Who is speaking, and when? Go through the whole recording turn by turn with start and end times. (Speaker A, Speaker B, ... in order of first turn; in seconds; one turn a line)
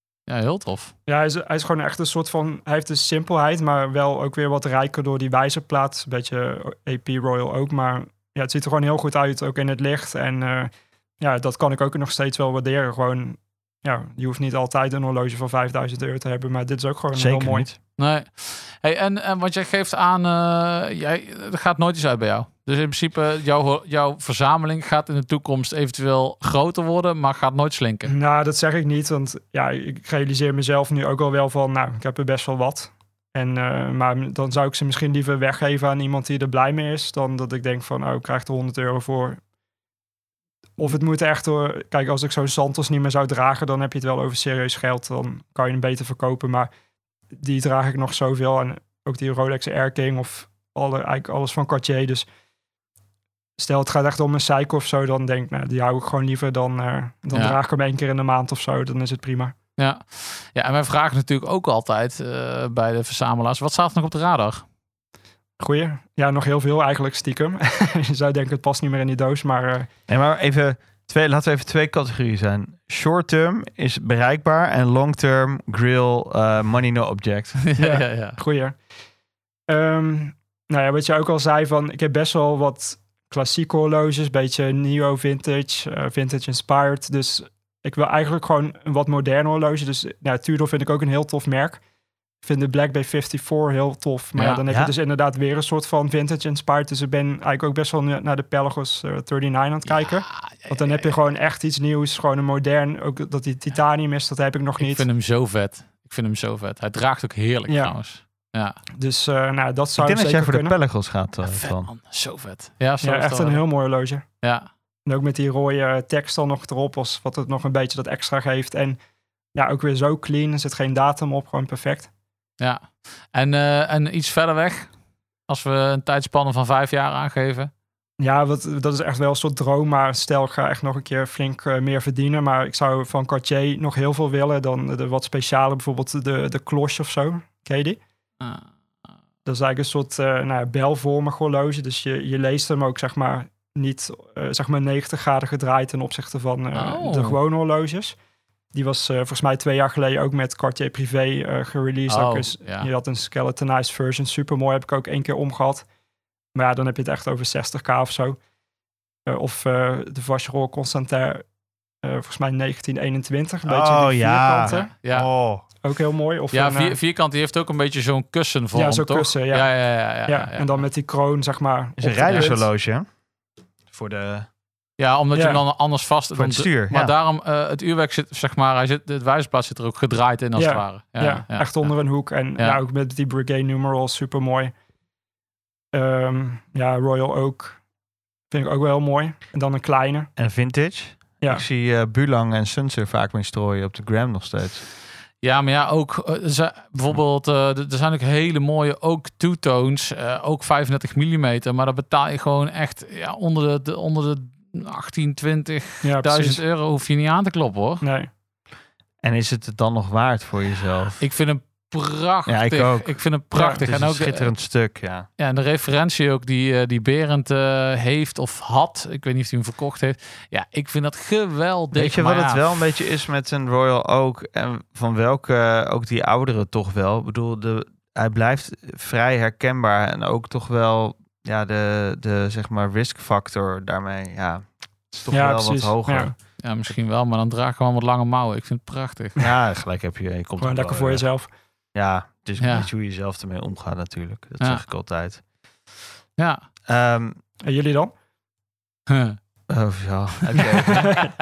Speaker A: 0.3-0.9
Speaker B: 1.1-17.7
Speaker C: 17.1-17.8
Speaker A: 18.0-28.1
Speaker B: 28.1-39.4
Speaker B: 40.8-46.7
Speaker B: 47.4-52.2
Speaker B: 53.6-59.5
Speaker A: 59.8-64.6
Speaker B: 65.6-69.9
Speaker C: 70.1-77.6
Speaker A: 77.7-78.4
Speaker B: 77.8-78.8
Speaker B: 79.7-91.8
Speaker B: 92.4-105.0
Speaker C: 94.7-94.9
Speaker A: 99.9-101.1
Speaker A: 104.8-108.8
Speaker B: 107.7-107.9
Speaker B: 109.0-110.7
Speaker C: 110.0-111.9
Speaker A: 111.4-113.6
Speaker B: 113.0-114.2
Speaker A: 114.4-114.7
Speaker B: 115.0-119.0
Speaker B: 119.5-122.1
Speaker A: 122.6-124.9
Speaker A: 125.5-127.7
Speaker B: 128.2-138.0
Speaker A: 138.4-138.6
Speaker B: 139.4-148.2
Speaker A: 146.7-147.4
Speaker B: 148.7-155.8
Speaker A: 152.1-152.9
Speaker B: 156.5-158.4
Speaker B: 159.3-161.4
Speaker B: 162.0-164.9
Speaker C: 163.6-165.6
Speaker A: 164.7-165.3
Speaker B: 165.8-167.0
Speaker A: 166.5-170.8
Speaker B: 168.7-169.7
Speaker B: 170.2-172.7
Speaker C: 172.0-173.1
Speaker C: 173.9-174.5
Speaker A: 175.0-181.9
Speaker B: 175.3-175.6
Speaker C: 176.3-177.1
Speaker B: 180.6-184.7
Speaker B: 185.9-187.8
Speaker B: 188.5-190.3
Speaker C: 190.4-194.8
Speaker A: 195.4-208.0
Speaker B: 206.0-206.6
Speaker B: 208.0-208.3
Speaker C: 209.2-211.2
Speaker A: 211.2-214.5
Speaker C: 212.5-213.2
Speaker B: 213.5-213.8
Speaker C: 213.8-215.3
Speaker A: 215.4-222.6
Speaker C: 221.9-236.3
Speaker B: 235.3-236.3
Speaker A: 236.6-239.4
Speaker C: 239.4-241.2
Speaker B: 240.6-241.5
Speaker C: 241.9-245.4
Speaker A: 242.6-242.9
Speaker A: 246.4-246.6
Speaker C: 246.9-247.4
Speaker B: 247.6-248.1
Speaker A: 249.1-249.4
Speaker C: 249.7-251.2
Speaker A: 250.5-251.3
Speaker B: 250.9-251.3